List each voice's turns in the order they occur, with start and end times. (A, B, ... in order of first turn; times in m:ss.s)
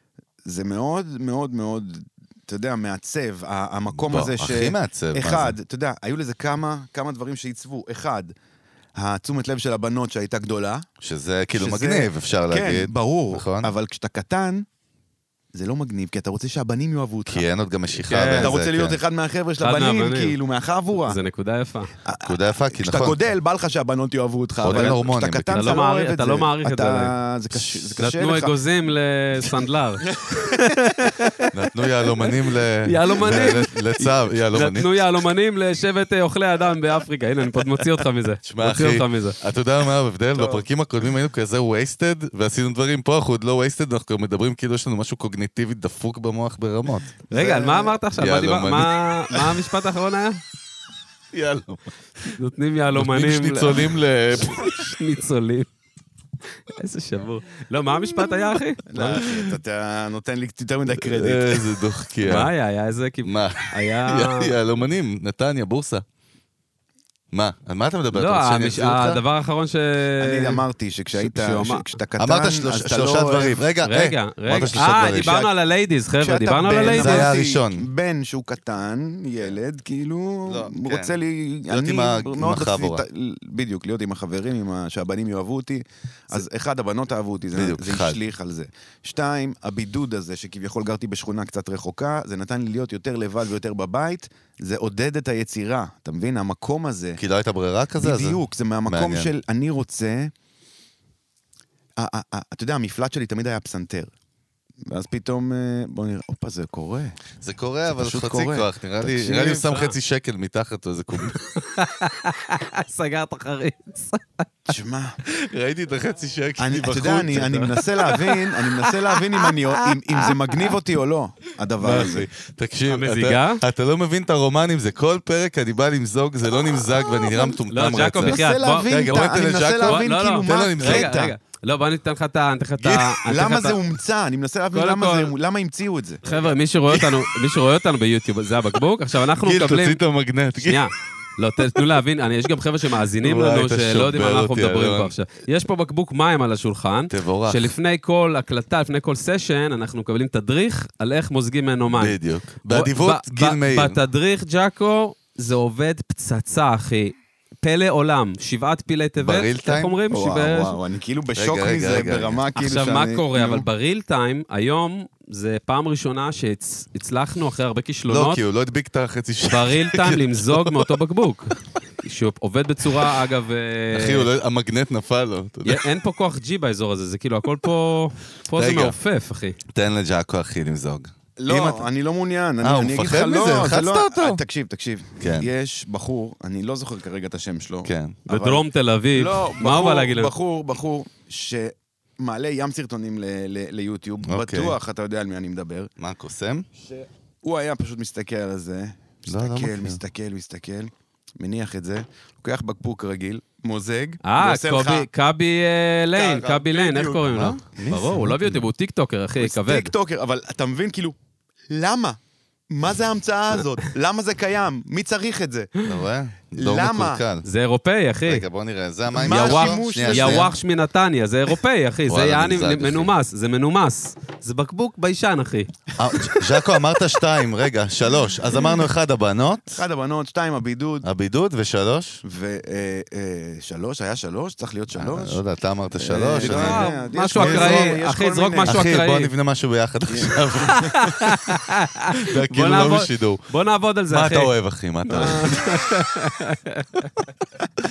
0:00.4-0:08.3 A
0:03.9-0:05.6 B
0:09.0-0:10.9 A
0:11.0-0:13.7 B
0:11.5-0:14.6 A
0:15.5-0:17.5 A
0:17.2-0:19.0 B
0:18.1-0:18.5 C
0:18.4-0:21.2 A
0:19.6-0:20.4 C
0:21.0-0:21.9 C
0:22.0-0:28.5 A
0:22.2-0:23.2 B
0:24.6-0:25.8 B
0:24.7-0:25.0 C
0:25.5-0:27.1 C
0:28.0-0:31.5 C
0:30.1-0:30.7 A
0:31.5-0:34.9 B
0:32.2-0:39.4 C
0:38.4-0:47.2 B
0:40.4-0:40.6 A
0:47.3-0:48.0 A
0:47.3-0:50.4 C
0:48.2-0:49.6 B
0:51.3-0:52.4 B
0:52.3-0:55.7 C
0:52.9-0:54.9 B
0:56.7-0:59.2 C
0:58.1-0:58.6 B
0:58.8-1:01.7 A
0:59.1-0:59.5 B
1:00.9-1:02.5 B
1:02.2-1:04.6 C
1:03.2-1:06.0 B
1:07.3-1:09.2 B
1:08.1-1:10.6 C
1:10.2-1:13.6 A
1:11.2-1:11.9 C
1:12.2-1:15.4 B
1:13.8-1:17.3 C
1:14.6-1:15.5 A
1:16.2-1:37.2 A
1:16.8-1:17.8 B
1:20.5-1:21.2 B
1:21.7-1:23.0 B
1:27.5-1:28.2 B
1:37.2-1:39.3 B
1:38.0-1:40.3 A
1:42.0-1:44.1 A
1:44.9-1:47.2 A
1:47.4-1:51.5 B
1:47.9-1:49.6 A
1:49.6-1:49.9 C
1:51.6-1:54.5 C
1:54.7-1:55.2 A
1:55.2-1:57.7 B
1:56.6-2:02.3 A
1:57.5-2:00.7 C
2:01.8-2:11.3 B
2:02.9-2:03.6 C
2:07.7-2:13.8 C
2:08.2-2:11.3 A
2:12.8-2:13.2 B
2:13.2-2:16.2 A
2:14.7-2:15.3 C
2:16.2-2:20.0 C
2:16.3-2:17.3 B
2:19.4-2:20.9 B
2:20.6-2:40.8 C
2:21.6-2:22.0 B
2:23.2-2:25.1 B
2:27.1-2:27.7 B
2:31.9-2:34.0 B
2:39.2-2:40.0 B
2:40.1-2:43.7 A
2:41.4-2:42.4 B
2:42.6-2:48.4 C
2:48.1-2:50.9 B
2:49.5-2:54.3 C
2:53.9-2:55.8 B
2:55.6-2:59.6 C
2:58.5-2:59.0 B
2:59.7-3:01.9 B
3:01.4-3:15.9 A
3:02.6-3:04.4 B
3:05.2-3:05.5 B
3:07.8-3:08.2 B
3:08.3-3:10.3 C
3:14.2-3:14.8 B
3:16.0-3:16.6 B
3:16.8-3:25.1 A
3:19.3-3:20.0 B
3:24.2-3:29.9 C
3:26.1-3:27.2 A
3:27.2-3:28.6 B
3:29.4-3:31.2 A
3:31.7-3:32.2 A
3:32.7-3:35.7 A
3:35.8-3:37.4 B
3:36.5-3:37.2 A
3:37.4-3:38.4 C
3:38.2-3:40.5 B
3:39.1-3:40.5 A
3:39.2-3:46.4 C
3:42.1-3:43.1 B
3:46.0-3:49.8 B
3:49.7-3:51.1 A
3:51.0-3:52.2 B
3:52.2-3:55.4 A
3:54.9-3:58.0 B
3:56.0-3:58.9 A
3:56.4-3:59.3 C
3:58.6-4:01.5 B
4:00.1-4:00.9 A
4:00.7-4:04.5 C
4:02.2-4:03.4 B
4:04.1-4:05.6 B
4:05.0-4:07.1 C
4:05.1-4:05.5 A